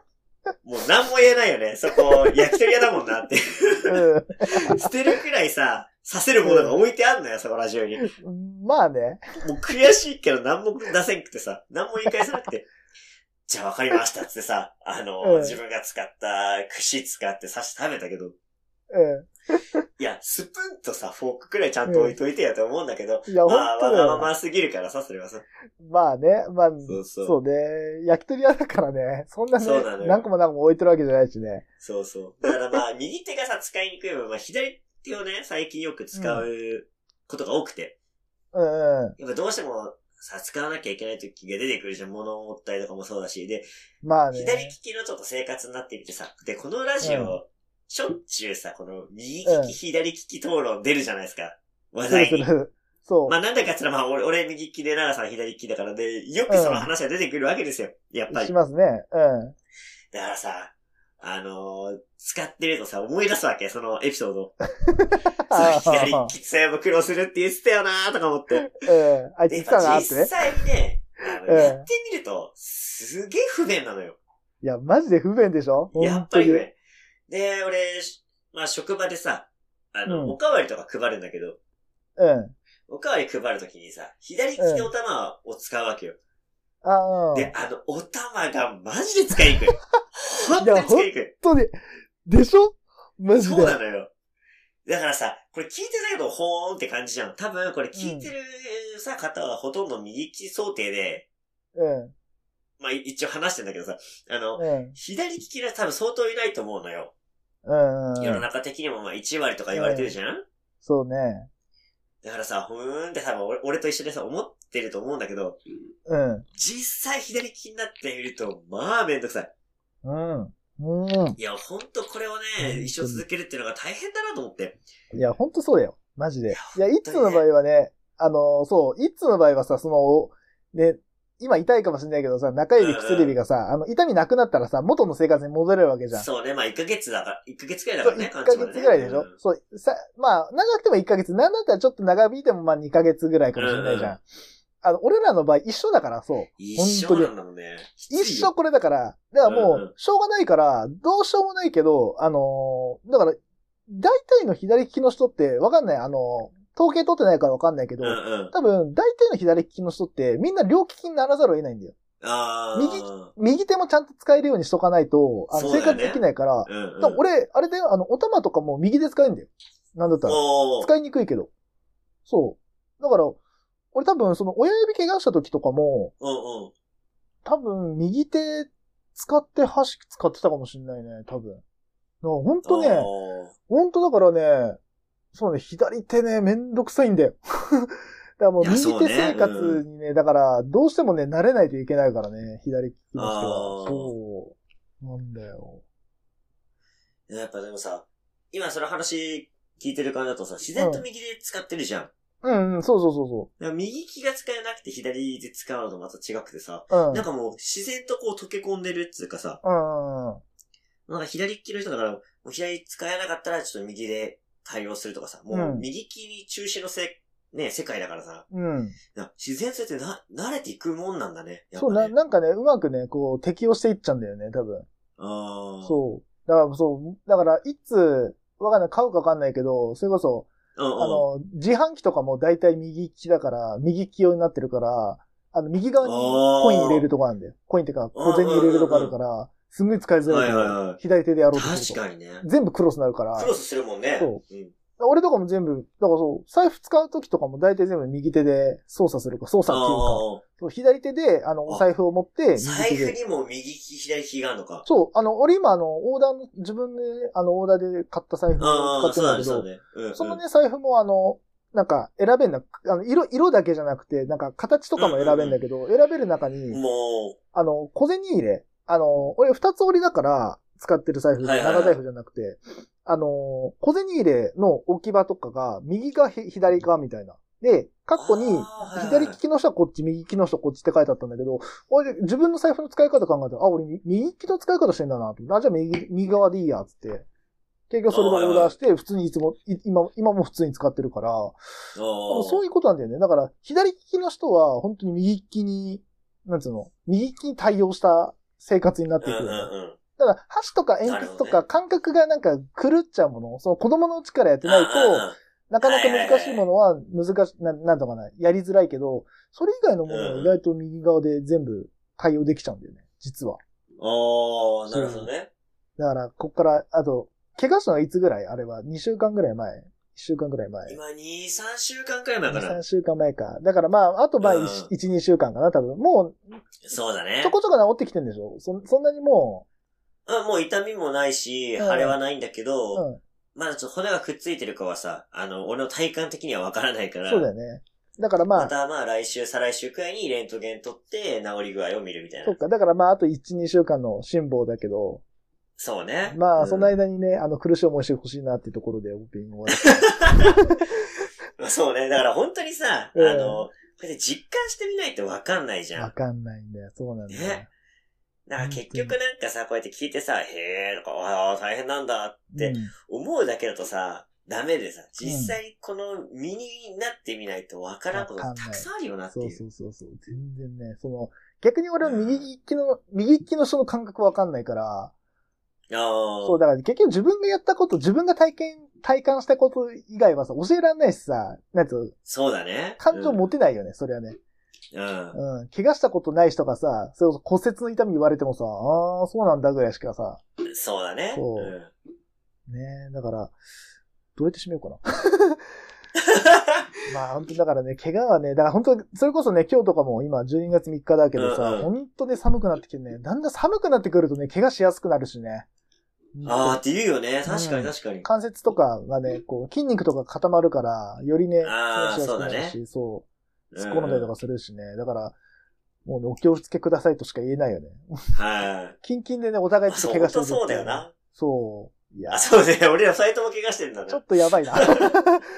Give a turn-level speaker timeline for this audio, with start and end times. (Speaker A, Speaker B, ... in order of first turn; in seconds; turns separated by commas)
Speaker A: 0.6-8.1, Speaker B: 3.9-4.8, Speaker B: 6.4-6.8, Speaker B: 8.0-9.3, Speaker A: 9.4-12.7, Speaker A: 13.5-18.3, Speaker B: 15.2-15.6, Speaker B: 18.9-19.8, Speaker A: 20.0-25.4, Speaker B: 21.9-22.1, Speaker B: 23.3-24.3, Speaker B: 25.8-31.6, Speaker A: 26.9-27.4, Speaker A: 29.6-30.3, Speaker A: 31.8-37.9, Speaker B: 36.1-36.5, Speaker B: 38.5-39.1, Speaker A: 39.2-43.7, Speaker B: 44.0-44.8, Speaker A: 44.3-52.5, Speaker B: 47.0-47.4, Speaker B: 49.5-49.8, Speaker B: 52.1-53.4, Speaker A: 53.3-58.5, Speaker B: 56.5-56.9, Speaker B: 58.3-59.5, Speaker A: 60.1-64.5, Speaker B: 64.8-66.3, Speaker A: 65.5-68.8, Speaker B: 68.6-70.3, Speaker A: 69.5-74.2, Speaker B: 71.4-71.9, Speaker B: 74.6-76.7, Speaker A: 75.9-76.7, Speaker A: 77.3-81.6, Speaker B: 80.1-80.4, Speaker B: 82.2-82.5, Speaker A: 82.9-86.2, Speaker B: 84.6-84.9, Speaker B: 86.8-87.5, Speaker A: 87.3-91.3, Speaker B: 90.6-93.8, Speaker A: 93.4-94.1, Speaker A: 94.8-101.2, Speaker B: 97.9-98.3, Speaker B: 101.8-102.1, Speaker A: 102.8-107.1, Speaker B: 104.5-105.0, Speaker B: 107.6-108.4, Speaker A: 108.2-110.4, Speaker B: 109.7-110.1, Speaker B: 110.8-111.5, Speaker A: 112.2-115.6, Speaker B: 116.1-116.5, Speaker A: 116.5-119.5, Speaker B: 120.0-121.4, Speaker A: 121.4-124.8, Speaker B: 122.6-123.2, Speaker B: 125.1-136.3, Speaker A: 126.5-127.4, Speaker A: 132.8-133.3, Speaker A: 136.1-139.3, Speaker B: 138.0-144.2, Speaker A: 143.6-144.2, Speaker B: 144.8-147.3, Speaker A: 146.6-148.5, Speaker B: 148.1-161.9, Speaker A: 149.4-149.9, Speaker A: 158.0-158.5, Speaker A: 162.2-163.3, Speaker B: 162.7-171.5, Speaker A: 165.5-167.2, Speaker A: 170.2-170.9, Speaker B: 172.2-173.4, Speaker B: 173.9-176.1, Speaker A: 176.2-176.7, Speaker B: 177.4-181.6, Speaker B: 182.2-183.1, Speaker A: 182.6-183.5, Speaker B: 183.7-184.8, Speaker B: 185.3-195.8, Speaker A: 188.6-189.8, Speaker A: 193.2-194.1, Speaker A: 197.3-202.1, Speaker B: 200.8-201.0, Speaker B: 202.4-203.5, Speaker A: 203.6-209.6, Speaker B: 206.9-207.2, Speaker B: 209.6-210.4, Speaker A: 211.1-218.4, Speaker B: 215.5-215.8, Speaker B: 218.5-218.9, Speaker A: 219.1-222.1, Speaker B: 221.8-224.9, Speaker A: 225.2-226.0, Speaker B: 225.8-243.5, Speaker A: 230.7-231.2, Speaker A: 236.0-237.0, Speaker A: 238.1-239.1, Speaker A: 240.3-241.0, Speaker A: 241.5-242.4, Speaker A: 243.3-244.7, Speaker B: 245.0-253.2, Speaker A: 249.7-250.4, Speaker A: 252.6-254.8, Speaker B: 254.8-266.8, Speaker A: 258.6-260.4, Speaker A: 265.0-265.6, Speaker A: 266.7-267.4, Speaker B: 267.5-287.2, Speaker A: 271.4-272.0, Speaker A: 278.2-279.4, Speaker B: 287.9-291.6, Speaker A: 288.1-288.7, Speaker A: 291.9-292.6, Speaker B: 292.3-313.6, Speaker A: 299.2-300.0, Speaker A: 301.0-301.6, Speaker A: 304.6-306.6, Speaker A: 310.1-310.6, Speaker A: 314.0-315.5, Speaker B: 314.9-315.3, Speaker B: 316.0-321.0, Speaker A: 320.9-322.8, Speaker B: 322.5-326.6, Speaker A: 324.4-324.9, Speaker A: 326.9-327.5, Speaker B: 327.4-329.6, Speaker A: 330.3-333.0, Speaker B: 331.8-332.2, Speaker B: 332.9-333.2, Speaker A: 333.5-337.5, Speaker B: 337.2-338.7, Speaker A: 338.6-342.6, Speaker B: 342.4-345.2, Speaker A: 345.8-346.9, Speaker B: 346.3-350.9, Speaker A: 349.7-350.6, Speaker A: 351.6-356.1, Speaker B: 353.1-353.7, Speaker B: 355.9-357.7, Speaker A: 357.3-357.6, Speaker A: 358.5-369.6, Speaker B: 358.6-359.1, Speaker B: 362.5-362.9, Speaker B: 365.2-365.6, Speaker B: 368.1-375.1, Speaker A: 372.0-372.5, Speaker A: 375.9-376.6, Speaker B: 376.4-382.1, Speaker A: 382.2-383.4, Speaker B: 383.0-384.4, Speaker A: 384.9-385.4, Speaker B: 385.3-390.4, Speaker A: 390.7-391.9, Speaker B: 391.3-391.7, Speaker B: 392.7-393.5, Speaker B: 394.4-395.6, Speaker A: 396.1-396.9, Speaker B: 397.1-405.6, Speaker A: 401.3-401.9, Speaker B: 406.4-406.8, Speaker A: 406.4-408.2, Speaker B: 407.4-413.2, Speaker A: 411.6-412.8, Speaker A: 413.7-414.3, Speaker B: 413.8-415.4, Speaker B: 416.0-418.3, Speaker A: 418.3-418.9, Speaker B: 419.0-422.5, Speaker A: 419.9-421.1, Speaker A: 422.3-425.1, Speaker B: 424.1-425.4